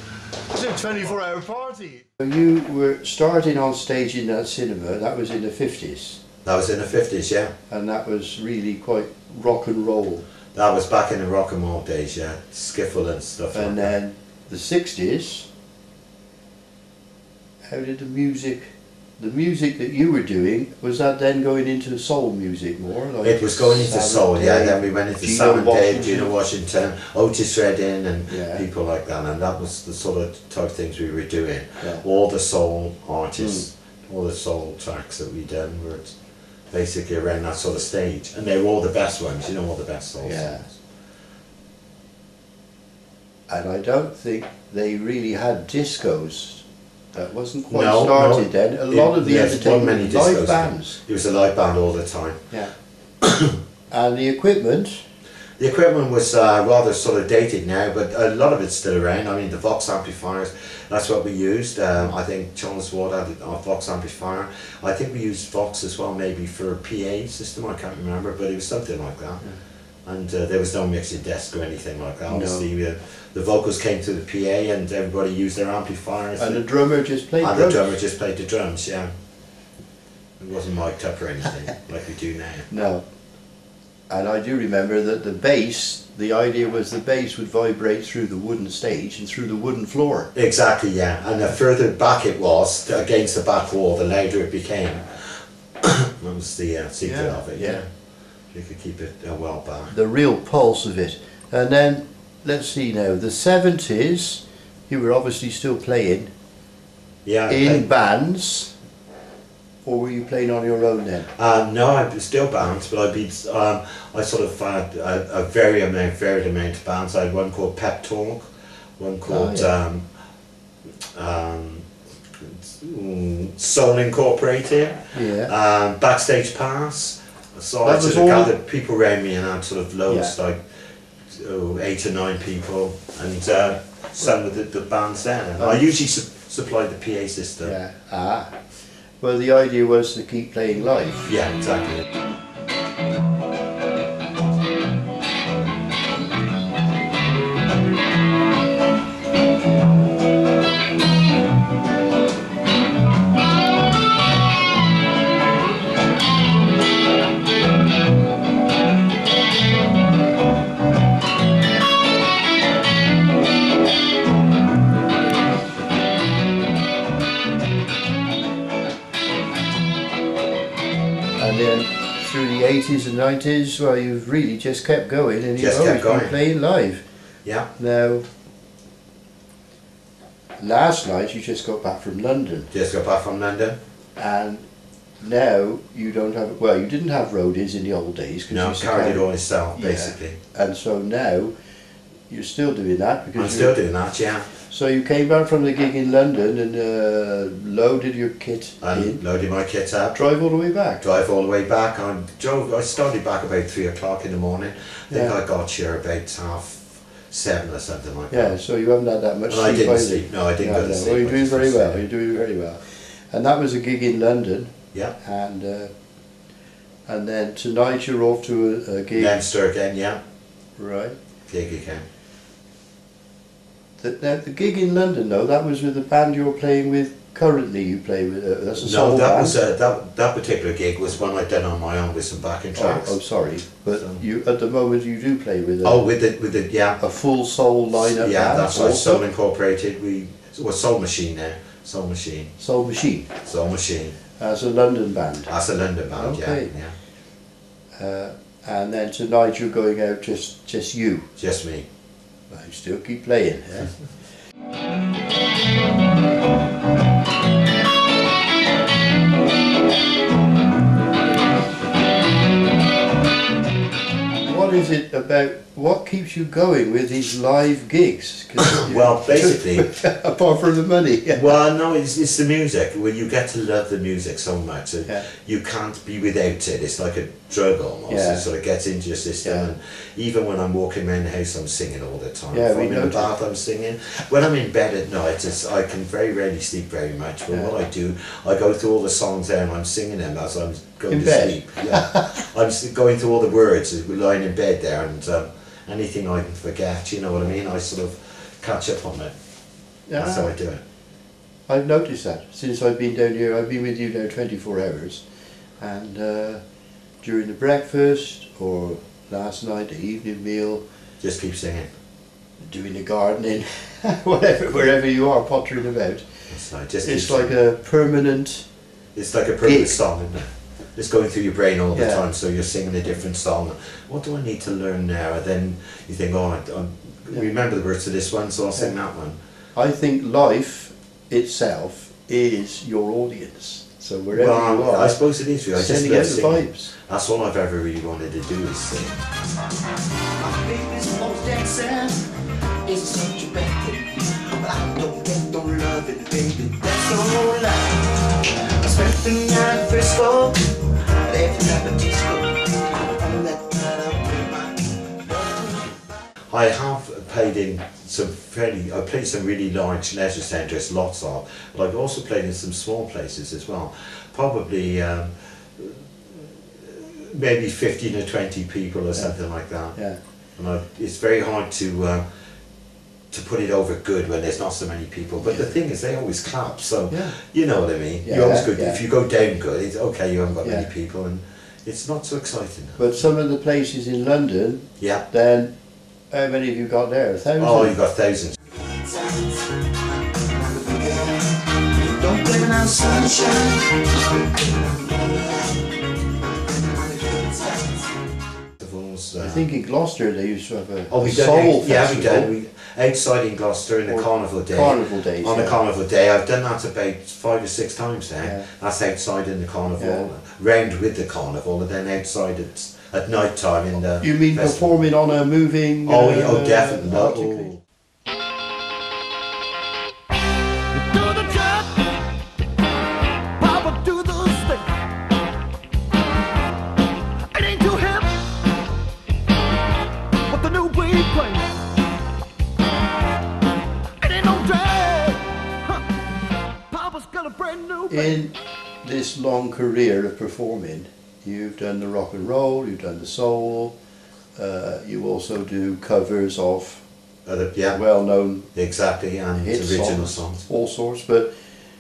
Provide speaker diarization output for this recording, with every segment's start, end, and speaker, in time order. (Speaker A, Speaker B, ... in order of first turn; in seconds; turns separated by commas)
Speaker A: 0.5-6.2, Speaker B: 6.4-7.5, Speaker A: 7.7-10.3, Speaker B: 10.5-13.9, Speaker A: 13.5-15.5, Speaker A: 17.7-26.3, Speaker B: 23.2-36.2, Speaker A: 28.3-28.6, Speaker A: 33.4-33.7, Speaker B: 36.7-40.8, Speaker A: 40.2-40.6, Speaker A: 43.5-51.0, Speaker B: 47.7-52.4, Speaker B: 53.2-53.6, Speaker A: 53.9-55.0, Speaker B: 55.6-69.4, Speaker B: 70.0-76.7, Speaker A: 72.3-72.7, Speaker A: 76.4-77.8, Speaker B: 77.4-79.1, Speaker B: 80.4-82.7, Speaker A: 82.7-83.0, Speaker A: 84.1-90.3, Speaker B: 90.3-97.9, Speaker A: 97.0-97.8, Speaker B: 98.5-99.9, Speaker A: 99.9-106.3, Speaker B: 107.2-107.8, Speaker A: 107.5-108.7, Speaker A: 109.8-111.3, Speaker B: 111.4-120.1, Speaker A: 119.3-119.7, Speaker B: 121.1-130.7, Speaker A: 125.1-125.5, Speaker A: 127.8-128.5, Speaker A: 130.1-130.3, Speaker B: 131.3-137.8, Speaker A: 135.6-135.8, Speaker A: 137.6-138.6, Speaker A: 139.2-141.3, Speaker B: 141.3-142.1, Speaker A: 171.4-177.0, Speaker B: 175.6-176.4, Speaker A: 177.8-178.2, Speaker A: 180.6-182.7, Speaker B: 182.7-183.8, Speaker A: 184.2-184.7, Speaker A: 185.2-189.2, Speaker B: 188.5-190.4, Speaker A: 189.8-191.5, Speaker A: 192.3-193.8, Speaker B: 193.4-194.5, Speaker A: 194.7-199.2, Speaker B: 198.8-200.2, Speaker A: 200.1-201.0, Speaker B: 201.0-208.6, Speaker A: 208.3-215.9, Speaker B: 209.5-212.0, Speaker A: 217.1-219.4, Speaker B: 219.2-220.2, Speaker A: 220.8-221.2, Speaker B: 221.5-222.0, Speaker A: 224.0-229.6, Speaker B: 228.8-233.2, Speaker A: 232.8-236.0, Speaker B: 234.0-234.2, Speaker B: 235.8-237.0, Speaker A: 237.0-239.2, Speaker B: 238.0-242.5, Speaker A: 242.6-243.3, Speaker B: 243.4-244.2, Speaker A: 244.4-245.5, Speaker B: 245.5-246.9, Speaker A: 246.1-246.7, Speaker A: 248.0-251.3, Speaker B: 251.4-251.9, Speaker A: 252.5-253.9, Speaker A: 264.4-271.6, Speaker B: 268.6-269.9, Speaker B: 271.3-299.3, Speaker A: 278.1-278.4, Speaker A: 279.4-279.7, Speaker A: 282.5-283.3, Speaker A: 291.1-292.4, Speaker A: 300.1-300.5, Speaker B: 300.2-300.8, Speaker A: 301.7-305.2, Speaker A: 305.8-306.6, Speaker A: 307.2-310.8, Speaker B: 311.2-311.9, Speaker A: 312.6-316.3, Speaker B: 316.5-317.5, Speaker A: 317.0-318.7, Speaker B: 319.1-329.4, Speaker A: 319.6-320.0, Speaker A: 321.9-322.2, Speaker A: 329.8-335.2, Speaker B: 334.3-339.2, Speaker A: 335.7-336.9, Speaker C: 340.4-342.3, Speaker C: 342.9-356.0, Speaker B: 356.5-370.0, Speaker A: 369.9-370.2, Speaker B: 370.6-372.2, Speaker B: 373.3-383.1, Speaker A: 377.1-377.4, Speaker A: 378.2-379.0, Speaker A: 383.0-385.7, Speaker B: 385.0-385.2, Speaker A: 386.3-388.0, Speaker B: 387.6-388.6, Speaker C: 390.6-391.5, Speaker C: 392.1-393.9, Speaker C: 394.6-395.4, Speaker C: 396.8-398.0, Speaker B: 398.8-399.7, Speaker A: 399.4-402.5, Speaker B: 401.1-415.1, Speaker A: 404.1-405.8, Speaker A: 410.0-410.3, Speaker A: 414.2-417.7, Speaker B: 416.1-417.8, Speaker C: 420.9-422.1, Speaker C: 423.6-424.9, Speaker C: 427.5-428.4, Speaker C: 430.5-431.7, Speaker C: 434.2-436.1, Speaker C: 436.9-438.4, Speaker A: 438.1-443.9, Speaker A: 444.6-447.0, Speaker B: 447.5-448.0, Speaker A: 447.9-448.7, Speaker B: 448.7-450.6, Speaker A: 449.6-451.5